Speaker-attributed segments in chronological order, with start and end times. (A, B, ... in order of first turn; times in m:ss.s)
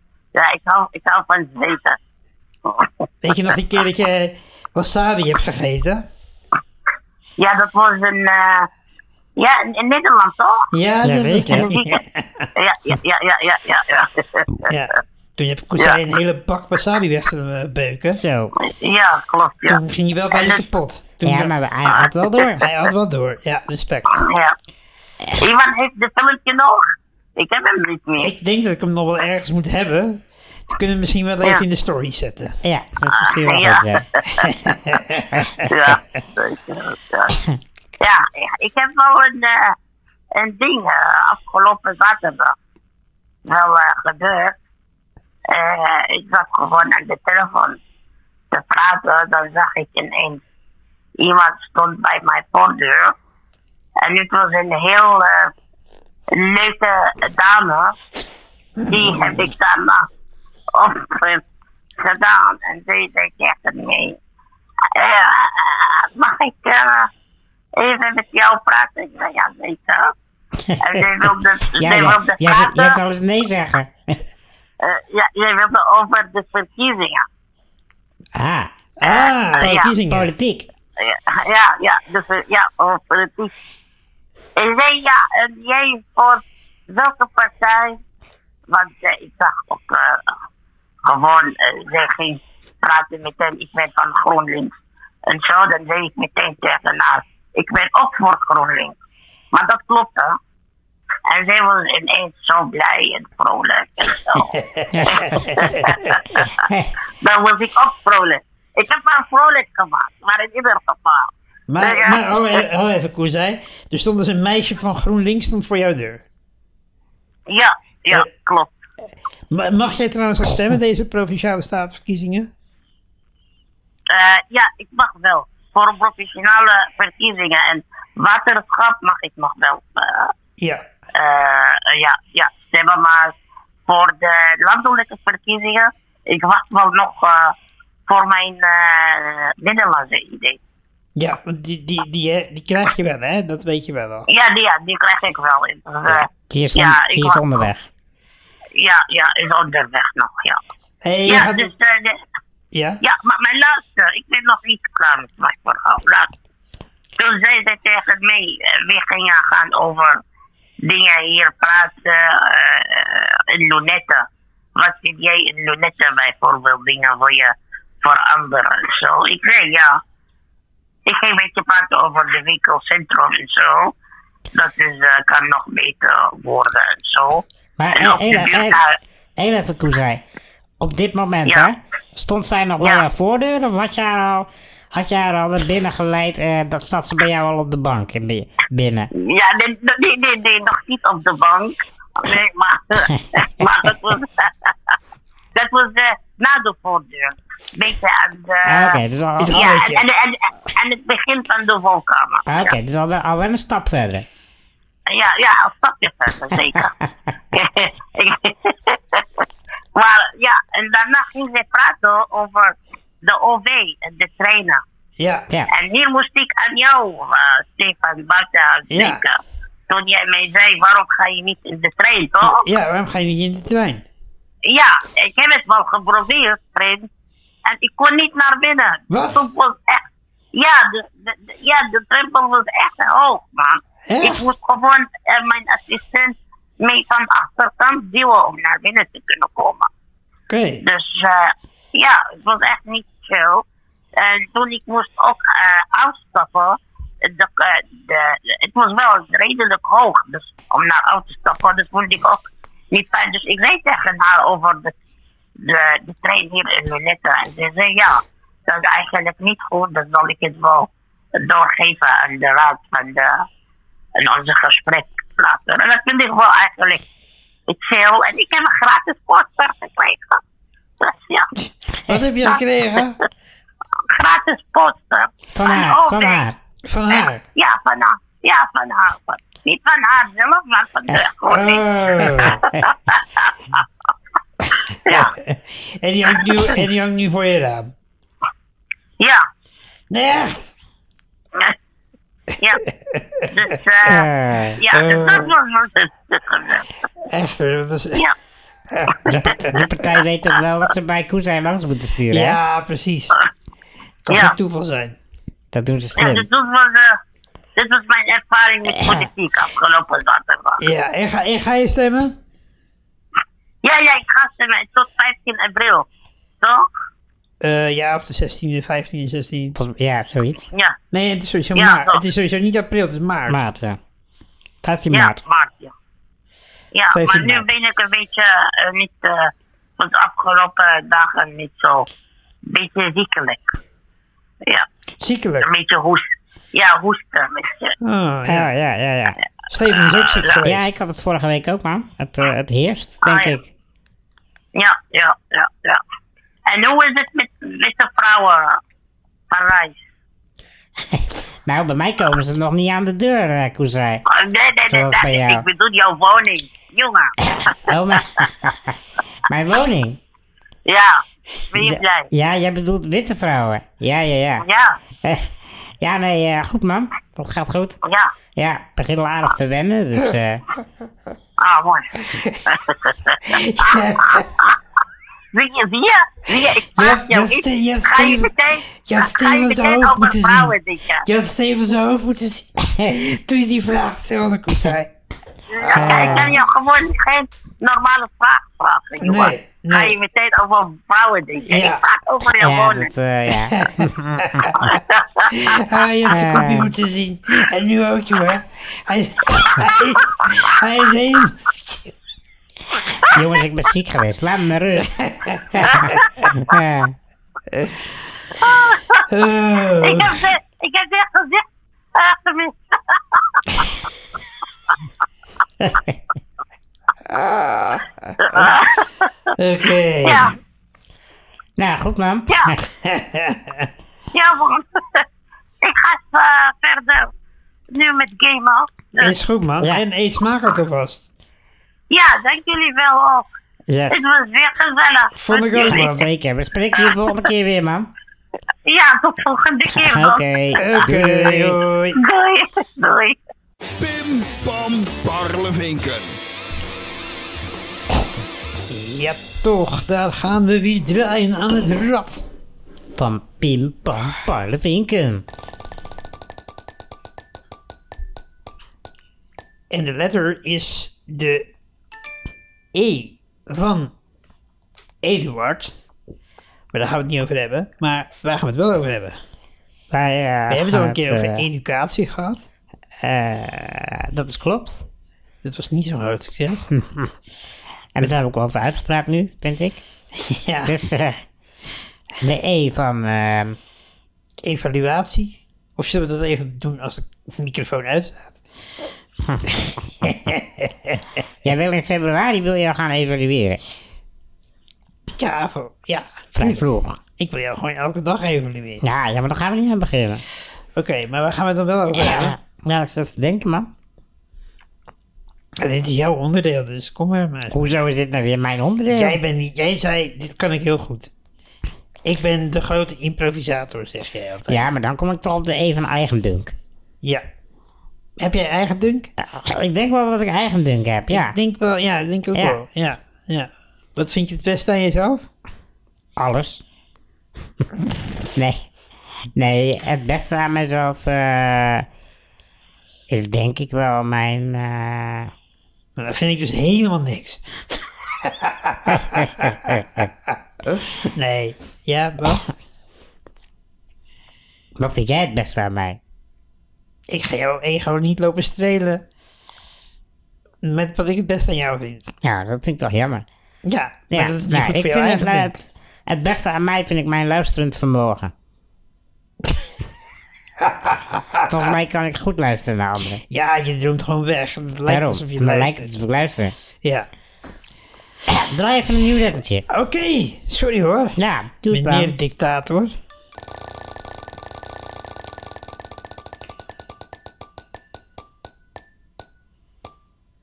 0:00.3-0:02.0 A
0:02.6-0:02.9 A
0:03.2-0:06.0 B
0:07.4-0:08.7 A
0:09.4-0:10.7 A
0:10.7-0:12.5 B
0:11.0-0:11.7 C
0:11.5-0:12.0 A
0:12.6-0:14.7 A
0:14.6-0:18.2 B
0:18.1-0:18.5 C
0:18.6-0:19.8 A
0:19.7-0:21.5 B
0:20.3-0:20.6 A
0:21.2-0:22.6 C
0:21.8-0:22.7 A
0:22.6-0:24.2 B
0:24.1-0:24.5 A
0:25.3-0:26.8 A
0:27.4-0:28.3 A
0:28.2-0:32.6 B
0:32.6-0:34.0 C
0:33.1-0:34.5 A
0:34.4-0:35.7 B
0:35.6-0:37.4 A
0:38.0-0:39.8 A
0:40.3-0:42.5 A
0:43.4-0:44.6 A
0:45.5-0:47.8 A
0:48.5-0:50.4 A
0:51.2-0:53.1 A
0:54.0-0:55.5 A
0:56.3-0:57.9 A
0:58.8-0:59.4 B
0:58.9-1:00.1 A
1:00.7-1:01.4 A
1:02.0-1:04.2 A
1:04.9-1:07.1 A
1:07.8-1:10.1 A
1:10.6-1:14.2 C
1:10.8-1:13.0 A
1:14.8-1:17.2 A
1:18.3-1:18.7 C
1:19.0-1:20.3 B
1:19.0-1:19.9 A
1:20.0-1:20.7 C
1:21.0-1:23.5 A
1:24.6-1:28.0 A
1:28.7-1:30.3 A
1:31.0-1:34.7 A
1:35.3-1:39.0 A
1:39.5-1:40.4 A
1:41.3-1:44.5 A
1:44.3-1:46.2 B
1:44.9-1:45.6 C
1:45.8-1:46.5 A
1:46.6-1:46.9 C
1:47.2-1:52.6 A
1:51.7-1:56.2 B
1:57.5-1:58.7 A
1:59.5-2:02.5 B
2:04.1-2:10.3 A
2:10.6-2:10.8 B
2:11.1-2:13.3 A
2:13.9-2:17.5 A
2:18.1-2:20.6 A
2:21.2-2:24.2 B
2:24.3-2:27.6 A
2:26.5-2:27.9 C
2:28.7-2:30.6 A
2:31.0-2:31.7 B
2:31.2-2:32.2 A
2:32.7-2:33.0 B
2:33.0-2:36.3 A
2:37.2-2:40.2 A
2:40.8-2:50.0 A
2:51.0-2:53.9 A
2:54.5-2:59.0 A
2:57.8-2:58.8 C
2:59.4-3:00.2 C
3:00.8-3:09.1 C
3:09.1-3:14.9 A
3:13.2-3:13.9 C
3:15.5-3:19.0 A
3:18.6-3:19.6 C
3:19.4-3:20.0 B
3:19.5-3:22.7 A
3:22.5-3:24.3 C
3:25.1-3:26.9 A
3:27.5-3:29.4 A
3:29.9-3:34.8 A
3:35.2-3:35.5 B
3:35.7-3:39.4 A
3:38.9-3:39.2 B
3:39.9-3:42.6 A
3:42.4-3:44.0 B
3:44.7-3:47.1 A
3:47.6-3:59.9 A
3:49.1-3:49.4 B
3:54.1-3:54.4 B
4:00.5-4:00.8 B
4:00.8-4:03.6 A
4:04.2-4:14.9 A
4:15.6-4:23.4 A
4:24.2-4:27.0 A
4:27.7-4:30.4 A
4:31.0-4:31.5 A
4:32.1-4:33.2 B
4:32.4-4:33.0 A
4:34.0-4:36.4 A
4:35.5-4:36.6 C
4:36.8-4:37.4 B
4:37.1-4:41.8 A
4:41.5-4:42.6 B
4:42.2-4:42.8 C
4:42.4-4:43.5 A
4:45.0-4:47.9 B
4:45.0-4:45.3 A
4:50.1-4:50.7 B
4:52.8-4:53.5 B
4:53.5-4:54.3 A
4:54.0-4:54.8 C
4:54.8-4:56.9 A
4:54.9-4:55.5 B
4:57.3-4:58.2 B
4:58.9-4:59.8 B
4:59.3-5:02.6 C
5:02.3-5:03.4 B
5:04.2-5:05.2 B
5:04.3-5:04.5 A
5:05.7-5:06.5 C
5:06.2-5:07.2 A
5:07.8-5:10.8 A
5:09.0-5:09.2 C
5:10.8-5:12.4 B
5:13.8-5:16.1 A
5:16.6-5:16.9 A
5:17.6-5:19.8 B
5:19.7-5:20.7 C
5:21.1-5:23.6 B
5:21.7-5:22.2 A
5:23.5-5:24.0 C
5:24.8-5:25.4 C
5:25.1-5:25.9 A
5:26.9-5:32.1 A
5:27.1-5:27.7 B
5:32.7-5:33.7 A
5:35.2-5:35.7 B
5:35.6-5:37.9 A
5:38.0-5:38.7 B
5:38.4-5:39.4 C
5:39.7-5:40.9 B
5:40.6-5:43.7 C
5:43.2-5:43.5 A
5:44.7-5:46.0 A
5:46.7-5:48.8 A
5:49.5-5:50.0 A
5:51.0-5:54.2 C
5:54.2-5:58.5 A
5:54.8-5:55.6 C
5:57.5-5:59.0 C
5:59.5-6:00.2 C
6:00.8-6:02.3 A
6:01.8-6:04.6 C
6:04.6-6:05.0 A
6:05.2-6:08.0 C
6:08.0-6:08.3 A
6:08.6-6:10.6 C
6:11.6-6:14.7 A
6:12.2-6:12.8 B
6:13.4-6:14.6 B
6:15.5-6:21.2 A
6:16.9-6:25.1 B
6:25.7-6:33.1 A
6:25.8-6:26.6 B
6:25.9-6:26.6 C
6:29.2-6:30.2 B
6:31.6-6:32.0 B
6:32.6-6:34.8 C
6:33.7-6:42.1 B
6:34.9-6:35.7 A
6:36.3-6:36.9 C
6:43.3-6:45.1 C
6:45.0-6:46.2 B
6:45.7-6:47.1 C
6:45.9-6:46.2 A
6:47.7-6:48.1 B
6:48.6-6:49.2 A
6:49.3-6:50.4 B
6:50.0-6:51.6 A
6:52.1-6:53.9 A
6:55.8-6:56.2 C
6:57.3-6:58.7 B
6:58.4-6:59.5 A
6:59.6-7:00.5 B
7:00.2-7:00.5 A
7:01.8-7:02.8 C
7:03.0-7:03.9 B
7:04.3-7:05.2 A
7:05.8-7:07.3 A
7:07.9-7:09.3 A
7:09.2-7:11.3 B
7:12.1-7:13.4 A
7:13.9-7:14.2 C
7:14.1-7:16.2 A
7:15.3-7:16.2 B
7:15.8-7:18.1 C
7:17.0-7:17.3 A
7:18.8-7:20.8 A
7:19.9-7:21.8 C
7:20.8-7:22.2 B
7:22.1-7:23.4 A
7:24.0-7:26.4 D
7:28.9-7:32.5 B
7:33.1-7:35.4 C
7:39.9-7:41.7 B
7:42.9-7:44.1 B
7:45.2-7:45.9 B
7:46.9-7:49.4 B
7:50.1-7:51.6 C
7:50.7-7:52.6 B
7:53.2-7:55.0 C
7:55.6-7:56.9 B
7:56.9-7:57.3 C
7:58.1-8:00.0 C
8:00.4-8:01.0 B
8:00.8-8:01.4 C
8:02.4-8:03.8 C
8:04.6-8:08.6 B
8:09.4-8:09.7 C
8:10.2-8:11.3 B
8:11.6-8:13.8 C
8:15.4-8:16.8 B
8:16.6-8:17.2 C
8:17.4-8:19.0 B
8:19.0-8:20.4 C
8:21.0-8:22.6 B
8:22.1-8:23.9 C
8:25.8-8:28.0 B
8:27.7-8:29.4 C
8:29.1-8:31.3 B
8:32.2-8:34.9 B
8:34.7-8:36.7 C
8:38.4-8:39.3 B
8:39.4-8:41.6 C
8:41.3-8:45.5 B
8:46.4-8:46.8 C
8:48.5-8:48.9 C
8:49.5-8:52.1 C
8:53.3-8:55.5 C
8:56.2-9:02.7 B
8:59.1-9:00.2 C
9:05.0-9:06.2 C
9:07.3-9:09.2 B
9:10.8-9:12.3 B
9:12.4-9:13.4 C
9:13.8-9:15.7 B
9:14.3-9:18.5 C
9:20.8-9:21.8 B
9:21.7-9:23.4 C
9:23.5-9:26.1 B
9:25.1-9:26.7 C
9:28.5-9:29.8 C
9:29.9-9:31.4 B
9:31.4-9:32.3 C
9:31.9-9:33.1 B